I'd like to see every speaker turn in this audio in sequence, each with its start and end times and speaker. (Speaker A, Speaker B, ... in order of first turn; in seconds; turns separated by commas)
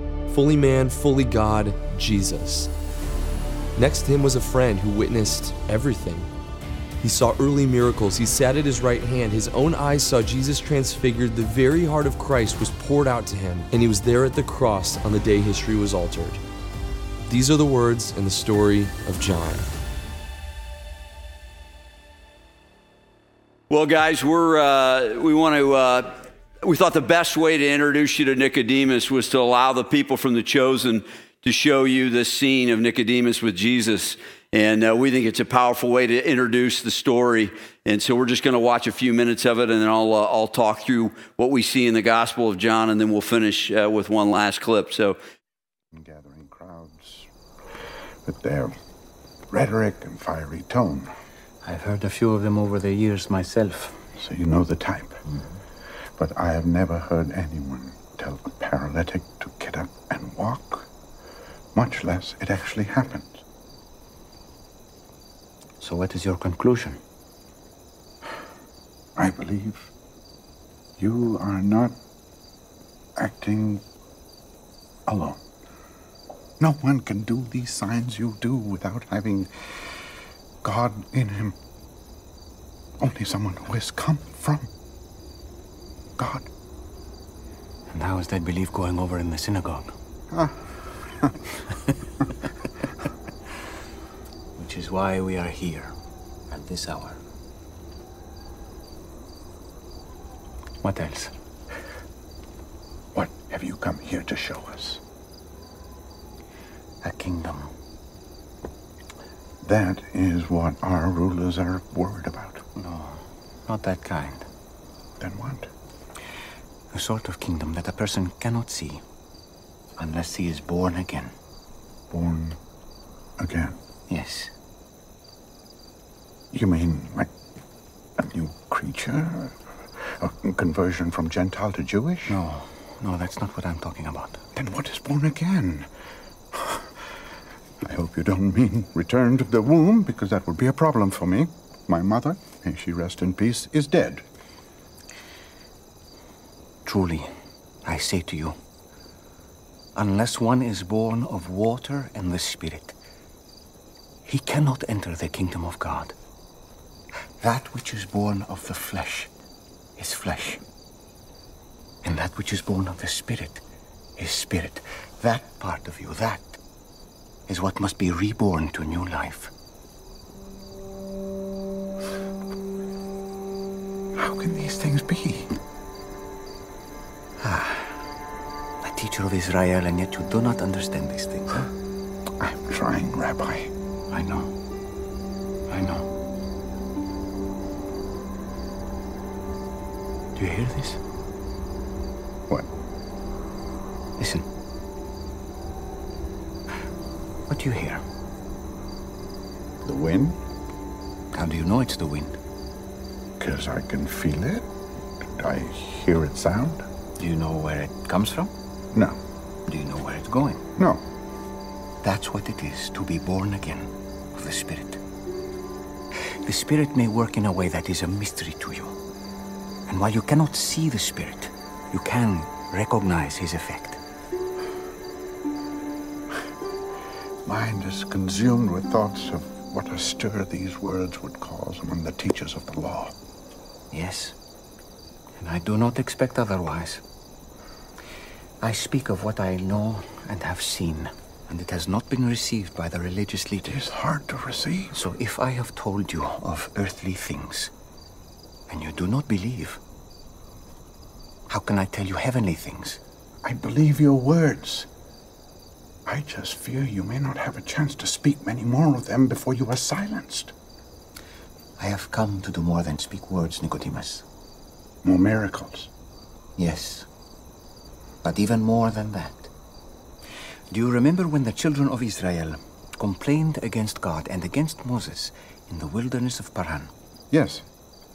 Speaker A: 0.3-2.7, Speaker A: 3.8-6.3, Speaker A: 7.0-16.4, Speaker A: 17.3-19.7, Speaker B: 23.7-45.2, Speaker C: 45.9-47.3, Speaker C: 48.2-48.8, Speaker C: 49.5-51.1, Speaker D: 51.6-54.0, Speaker C: 54.1-55.2, Speaker D: 55.3-55.6, Speaker C: 56.2-60.9, Speaker C: 61.7-63.4, Speaker D: 65.8-67.0, Speaker C: 69.2-69.9, Speaker C: 71.0-72.0, Speaker C: 73.2-73.8, Speaker C: 75.1-75.4, Speaker C: 76.6-80.0, Speaker C: 80.6-81.6, Speaker C: 83.0-84.7, Speaker C: 86.2-86.5, Speaker D: 87.9-90.0, Speaker C: 90.3-91.4, Speaker D: 94.6-96.0, Speaker D: 96.5-97.2, Speaker D: 100.8-101.3, Speaker C: 103.1-105.0, Speaker D: 107.0-107.7, Speaker C: 109.6-112.7, Speaker D: 112.8-114.5, Speaker C: 115.2-115.7, Speaker D: 116.9-119.0, Speaker D: 120.0-121.3, Speaker C: 122.1-122.6, Speaker C: 123.4-123.8, Speaker D: 124.1-124.5, Speaker C: 126.5-127.3, Speaker C: 128.2-132.4, Speaker D: 132.3-134.5, Speaker C: 134.6-135.9, Speaker C: 136.5-137.2, Speaker C: 137.8-144.2, Speaker D: 146.8-148.6, Speaker D: 149.9-153.0, Speaker D: 154.2-156.2, Speaker D: 157.4-159.3, Speaker D: 160.0-160.6, Speaker D: 162.0-163.6, Speaker D: 164.2-166.6, Speaker D: 167.5-169.5, Speaker C: 174.2-175.6, Speaker D: 177.4-178.0, Speaker D: 178.8-181.7, Speaker C: 182.4-183.7, Speaker D: 184.1-184.6, Speaker D: 185.7-186.1, Speaker D: 190.3-191.0, Speaker D: 194.2-194.5, Speaker D: 197.5-198.0, Speaker C: 199.8-200.4, Speaker D: 201.3-202.4, Speaker C: 203.4-204.7, Speaker C: 205.2-206.8, Speaker D: 207.2-208.5, Speaker D: 209.7-210.7, Speaker C: 210.8-211.0, Speaker D: 212.0-215.0, Speaker D: 216.4-219.0, Speaker D: 219.9-224.0, Speaker C: 227.4-233.2, Speaker D: 233.9-234.4, Speaker D: 235.4-237.0, Speaker D: 238.6-243.7, Speaker C: 243.7-245.0, Speaker D: 244.9-247.7, Speaker D: 248.7-249.8, Speaker D: 251.5-253.0, Speaker C: 253.4-254.9, Speaker C: 256.1-260.5, Speaker D: 261.8-264.3, Speaker C: 265.0-265.9, Speaker D: 266.6-267.1, Speaker D: 268.2-269.5, Speaker D: 270.7-276.9, Speaker C: 277.3-277.6